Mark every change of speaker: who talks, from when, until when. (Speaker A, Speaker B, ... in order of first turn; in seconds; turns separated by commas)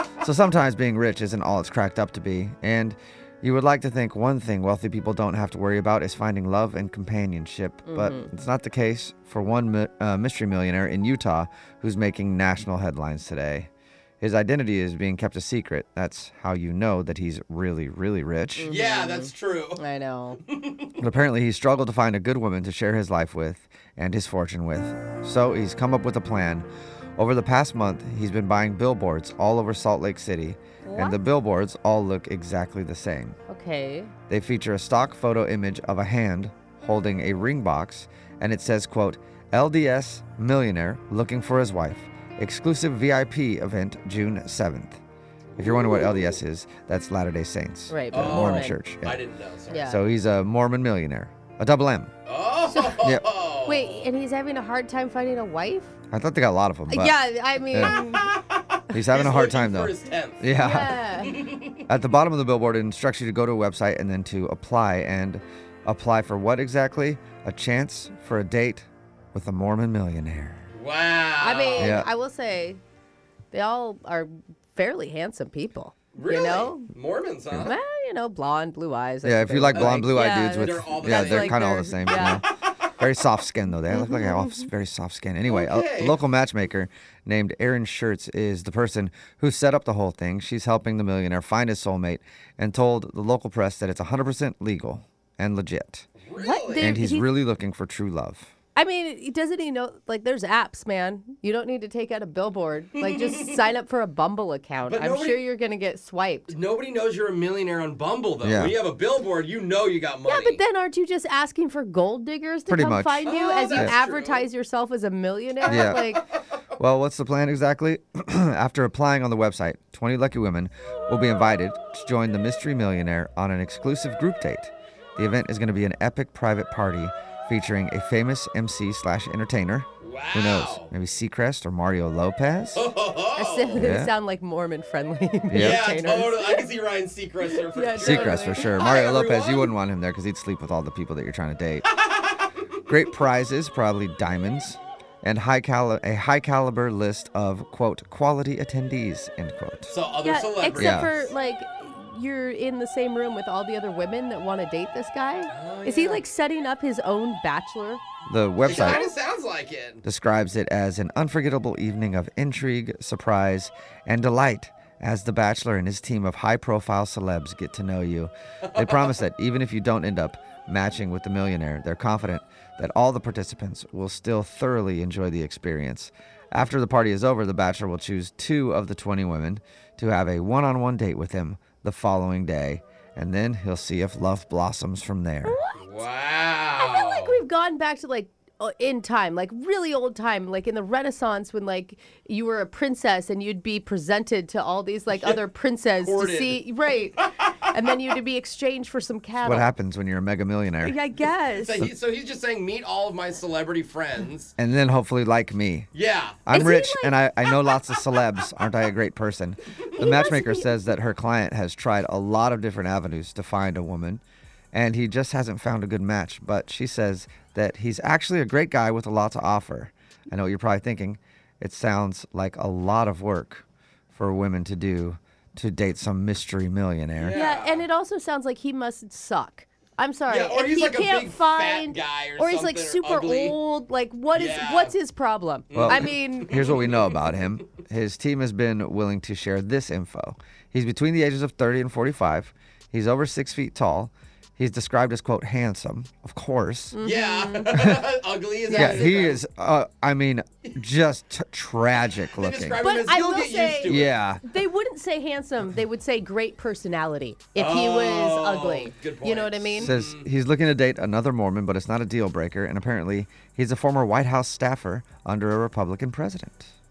Speaker A: 0.2-13.7, Speaker B: 7.8-8.3, Speaker A: 14.2-18.7, Speaker B: 18.6-20.4, Speaker C: 18.6-19.8, Speaker C: 20.4-20.9, Speaker A: 21.0-33.4, Speaker B: 30.8-31.2, Speaker B: 33.5-34.1, Speaker A: 34.3-45.0, Speaker A: 45.6-49.2, Speaker B: 47.9-48.8, Speaker C: 48.1-49.9, Speaker B: 49.7-50.0, Speaker A: 49.9-52.1, Speaker C: 52.2-54.1, Speaker B: 52.7-53.1, Speaker A: 53.0-53.2, Speaker B: 53.6-55.9, Speaker A: 56.1-57.1, Speaker B: 56.9-58.3, Speaker A: 57.7-57.9, Speaker C: 58.1-60.5, Speaker A: 58.9-61.0, Speaker B: 60.6-61.5, Speaker C: 61.2-61.8, Speaker A: 61.9-70.7, Speaker C: 70.7-72.0, Speaker B: 71.4-72.8, Speaker A: 71.8-72.1, Speaker B: 73.5-76.9, Speaker C: 76.1-77.7, Speaker B: 77.6-82.4, Speaker A: 79.2-82.4, Speaker C: 79.7-81.6, Speaker A: 83.0-96.1, Speaker B: 83.9-84.7, Speaker C: 85.4-86.2, Speaker C: 96.2-97.0, Speaker B: 96.4-97.2, Speaker A: 96.8-98.5, Speaker B: 98.8-106.5, Speaker C: 103.0-103.6, Speaker C: 104.9-105.4, Speaker C: 106.5-110.6, Speaker A: 108.4-108.8, Speaker B: 110.2-116.2, Speaker A: 112.7-113.2, Speaker C: 113.2-114.4, Speaker A: 115.7-116.0, Speaker C: 115.7-116.4, Speaker A: 116.8-132.9, Speaker C: 130.0-130.9, Speaker C: 132.7-133.9, Speaker B: 133.3-136.7, Speaker A: 133.8-134.1, Speaker A: 135.5-135.8, Speaker C: 135.5-139.7, Speaker B: 137.5-138.8, Speaker A: 138.0-141.8, Speaker C: 142.0-142.3, Speaker A: 142.9-149.9, Speaker C: 149.9-151.3, Speaker B: 150.2-158.0, Speaker A: 150.7-151.1, Speaker C: 155.5-156.2, Speaker A: 158.3-159.0, Speaker B: 158.6-159.1, Speaker C: 158.6-160.0, Speaker A: 160.0-185.6, Speaker C: 168.7-169.2, Speaker B: 185.4-185.8, Speaker C: 185.7-187.4, Speaker B: 186.8-199.7, Speaker C: 195.1-195.4, Speaker C: 196.0-196.6, Speaker A: 199.4-200.9, Speaker B: 200.8-201.9, Speaker C: 201.5-204.5, Speaker A: 204.6-205.9, Speaker C: 205.9-206.4, Speaker A: 206.4-214.2, Speaker B: 206.5-207.8, Speaker B: 209.9-210.8, Speaker A: 214.7-227.4, Speaker C: 227.2-227.8, Speaker B: 227.3-236.8, Speaker C: 230.3-233.6, Speaker C: 234.3-234.9, Speaker C: 235.7-237.2, Speaker A: 235.7-247.0, Speaker B: 246.9-247.9, Speaker C: 247.0-249.4, Speaker B: 248.7-249.3, Speaker A: 248.7-252.8, Speaker C: 252.2-254.2, Speaker B: 252.8-259.9, Speaker A: 253.8-254.4, Speaker C: 257.6-260.3, Speaker A: 259.8-266.7